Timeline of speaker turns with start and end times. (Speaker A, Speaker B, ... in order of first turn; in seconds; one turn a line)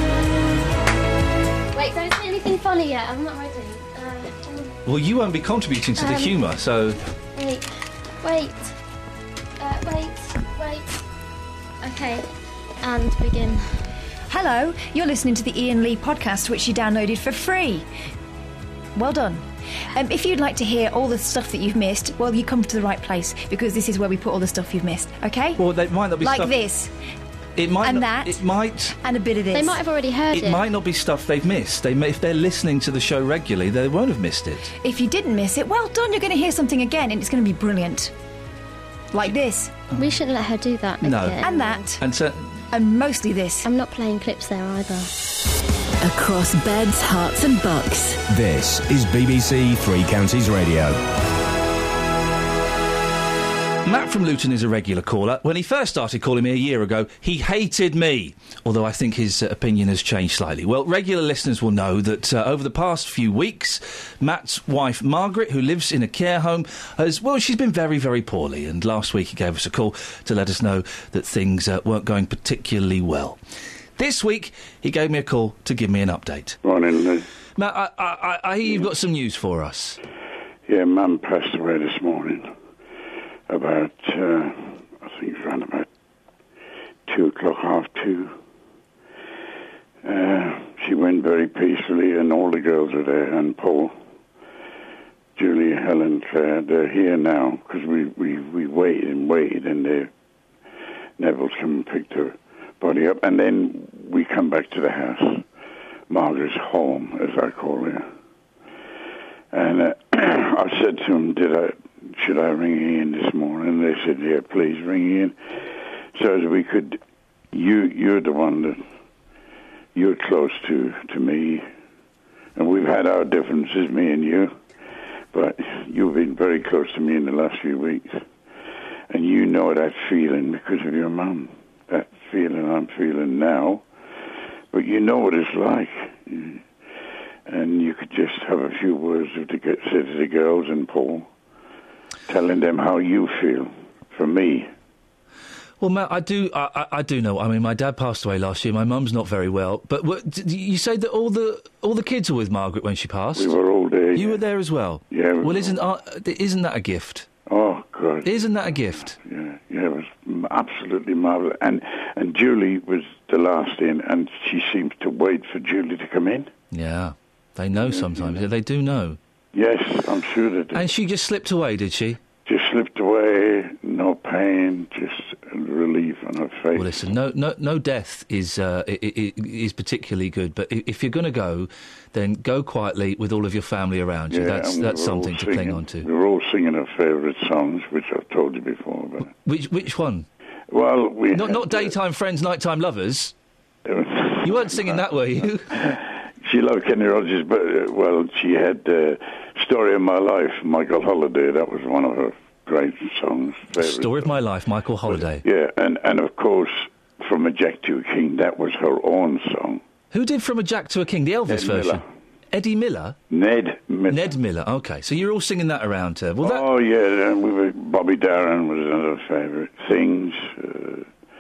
Speaker A: 1.7-4.8
Speaker B: 4.9-7.0
Speaker A: 6.0-6.4
Speaker A: 7.3-7.7
Speaker A: 8.2-8.7
Speaker A: 9.6-10.9
Speaker A: 11.8-12.3
Speaker A: 12.8-13.7
Speaker C: 14.3-17.9
Speaker C: 18.9-25.6
Speaker B: 25.6-26.6
Speaker C: 26.2-26.9
Speaker B: 27.6-28.9
Speaker C: 27.8-28.4
Speaker C: 29.0-29.8
Speaker A: 29.5-30.7
Speaker B: 30.3-34.7
Speaker C: 34.8-38.1
Speaker C: 39.1-39.8
Speaker A: 40.0-41.9
Speaker B: 41.0-41.4
Speaker C: 41.4-42.0
Speaker B: 42.0-42.5
Speaker C: 42.7-43.7
Speaker A: 43.6-45.1
Speaker D: 46.0-48.2
Speaker E: 48.3-51.0
Speaker B: 53.8-73.4
Speaker B: 74.0-76.6
Speaker F: 76.6-77.3
Speaker B: 77.6-80.0
Speaker F: 80.7-82.5
Speaker F: 83.5-85.9
Speaker F: 87.1-88.4
Speaker F: 90.0-94.0
Speaker F: 95.4-100.1
Speaker F: 101.2-105.5
Speaker F: 106.1-108.1
Speaker F: 109.5-117.0
Speaker F: 117.5-118.8
Speaker F: 119.9-121.7
Speaker F: 122.6-124.6
Speaker F: 125.3-128.2
Speaker F: 129.1-133.8
Speaker F: 134.7-136.6
Speaker F: 137.5-141.3
Speaker F: 142.3-144.7
Speaker B: 145.8-153.5
Speaker F: 153.3-154.4
Speaker B: 154.1-157.3
Speaker F: 155.1-155.9
Speaker F: 157.5-166.5
Speaker B: 158.2-159.2
Speaker B: 166.7-169.2
Speaker F: 167.7-168.5
Speaker F: 169.5-170.9
Speaker B: 170.7-172.2
Speaker F: 172.4-177.0
Speaker B: 176.8-186.1
Speaker F: 184.3-189.3
Speaker B: 189.4-190.3
Speaker F: 190.7-192.0
Speaker B: 191.3-193.3
Speaker F: 193.9-204.4
Speaker B: 194.4-195.7
Speaker B: 203.8-205.4
Speaker F: 205.0-209.8
Speaker B: 210.1-213.2
Speaker F: 211.5-212.0
Speaker F: 213.3-214.4
Speaker B: 214.1-216.7
Speaker F: 216.4-221.1